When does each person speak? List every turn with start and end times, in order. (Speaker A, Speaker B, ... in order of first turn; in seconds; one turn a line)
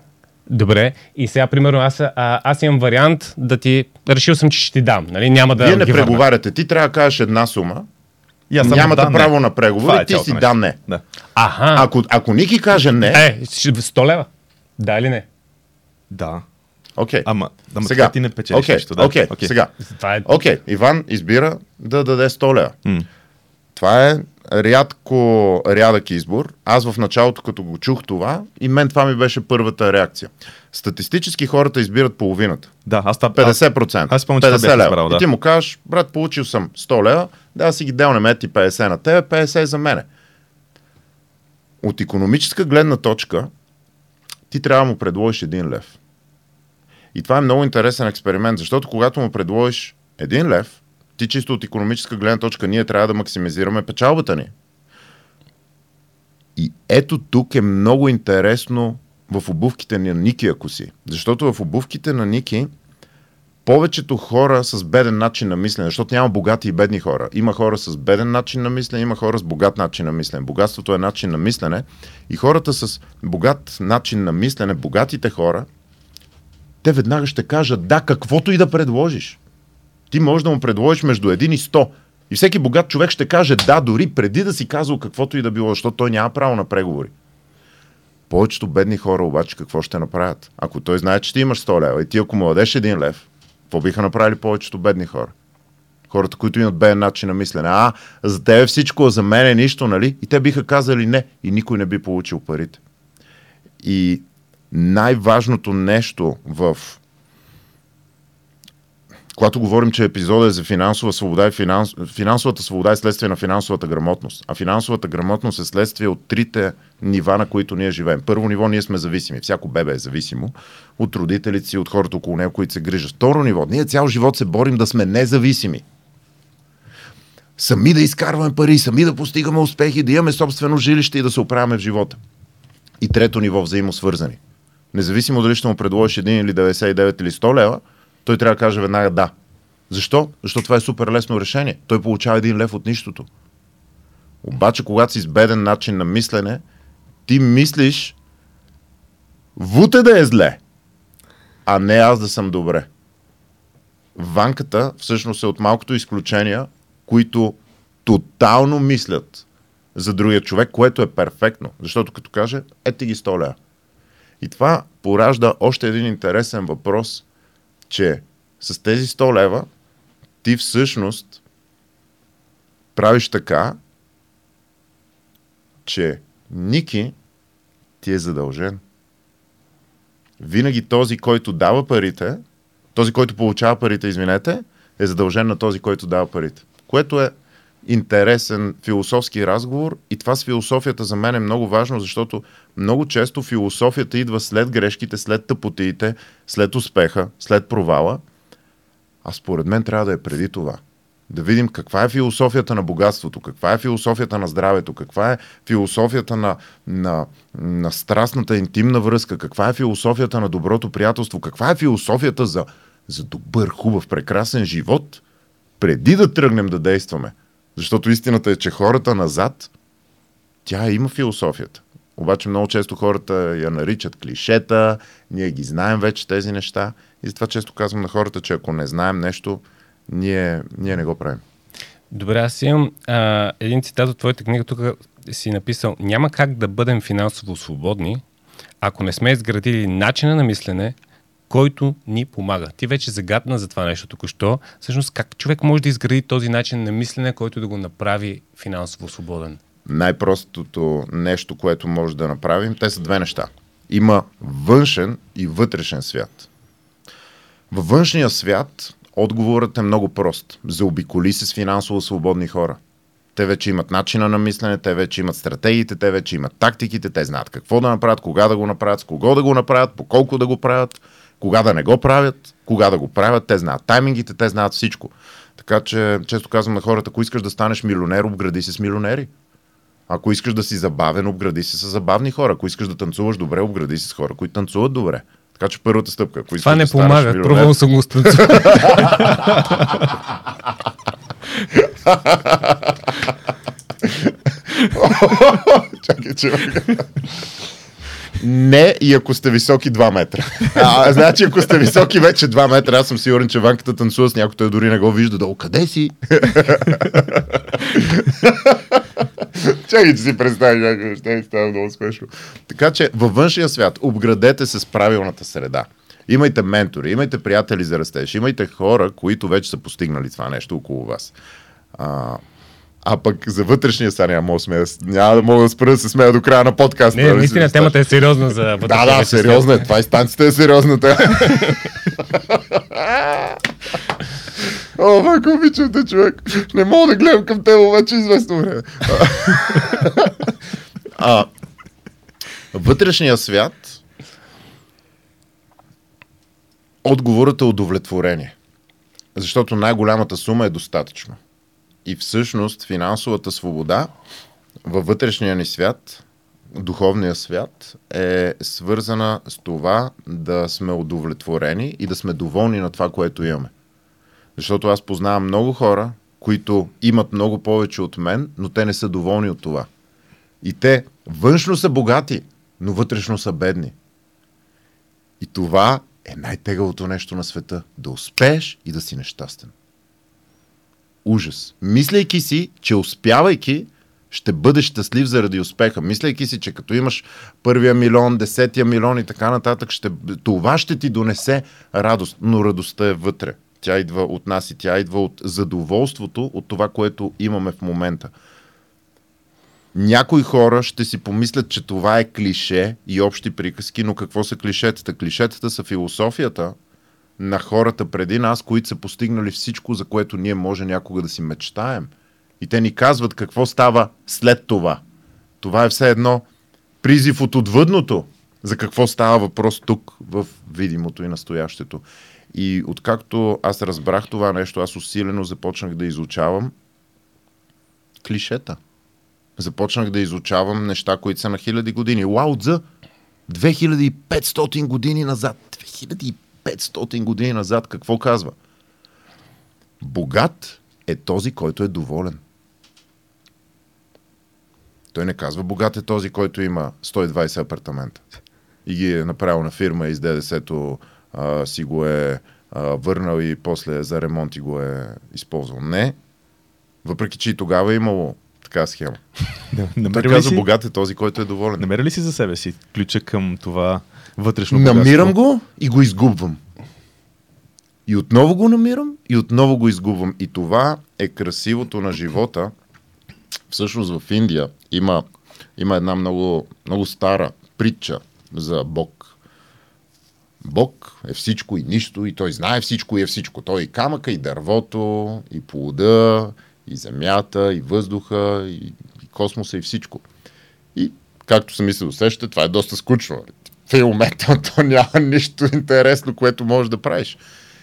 Speaker A: 0.5-6.2
Speaker B: 5.6-7.9
Speaker C: 8.5-11.0
Speaker B: 8.6-10.8
Speaker A: 11.3-11.9
Speaker B: 11.7-13.2
Speaker A: 13.1-15.2
Speaker C: 16.1-16.4
Speaker B: 16.9-17.3
Speaker C: 17.2-19.5
Speaker B: 17.8-19.7
Speaker A: 19.9-20.4
Speaker B: 20.2-22.8
Speaker B: 23.7-32.7
Speaker C: 32.9-35.2
Speaker B: 33.3-40.1
Speaker B: 41.8-43.5
Speaker B: 44.5-46.0
Speaker B: 47.1-54.5
Speaker B: 56.5-62.7
Speaker B: 63.6-75.7
Speaker B: 76.8-79.4
Speaker B: 80.1-87.1
Speaker B: 88.3-95.3
Speaker B: 96.1-102.8
Speaker B: 103.8-107.0
Speaker B: 109.3-125.8
Speaker B: 127.6-132.2
Speaker B: 133.0-134.4
Speaker B: 134.9-139.3
Speaker B: 139.9-143.3
Speaker B: 144.4-146.6
Speaker B: 147.3-148.2
Speaker B: 149.6-150.6
Speaker B: 151.7-152.9
Speaker B: 154.1-163.6
Speaker B: 164.4-167.2
Speaker B: 167.9-169.7
Speaker B: 170.4-171.4
Speaker B: 172.9-173.8
Speaker B: 175.8-177.1
Speaker B: 178.0-178.8
Speaker B: 180.4-182.4
Speaker B: 182.9-198.2
Speaker B: 199.2-215.2
Speaker B: 215.8-219.7
Speaker B: 220.6-231.4
Speaker A: 232.1-238.2
Speaker A: 238.8-240.9
Speaker A: 241.5-249.6
Speaker B: 249.9-256.5
Speaker B: 257.7-262.8
Speaker B: 263.3-279.3
Speaker B: 280.1-287.7
Speaker A: 286.6-289.9
Speaker B: 288.2-290.3
Speaker B: 291.7-293.3
Speaker B: 294.0-297.3
Speaker B: 298.4-321.3
Speaker B: 321.9-322.4
Speaker B: 323.0-327.9
Speaker A: 327.1-329.8
Speaker B: 328.8-340.6
Speaker B: 341.1-341.5
Speaker B: 342.7-344.0
Speaker B: 347.0-348.5
Speaker B: 349.3-351.4
Speaker B: 352.0-354.1
Speaker B: 354.8-363.7
Speaker B: 364.6-369.9
Speaker B: 370.6-373.9
Speaker B: 375.4-379.7
Speaker B: 381.2-398.3
Speaker B: 399.9-406.7
Speaker B: 407.4-415.0
Speaker B: 415.6-416.4
Speaker B: 417.0-426.7
Speaker B: 428.2-428.8
Speaker B: 429.6-432.8
Speaker B: 433.5-438.5
Speaker B: 440.0-442.4
Speaker B: 445.1-448.2
Speaker B: 448.8-456.1
Speaker B: 457.0-459.2
Speaker C: 459.7-460.7
Speaker B: 460.1-461.9
Speaker C: 461.8-465.3
Speaker B: 464.7-466.6
Speaker B: 468.1-472.7
Speaker B: 473.7-475.2
Speaker B: 475.8-479.3
Speaker B: 480.6-490.2
Speaker B: 490.9-497.4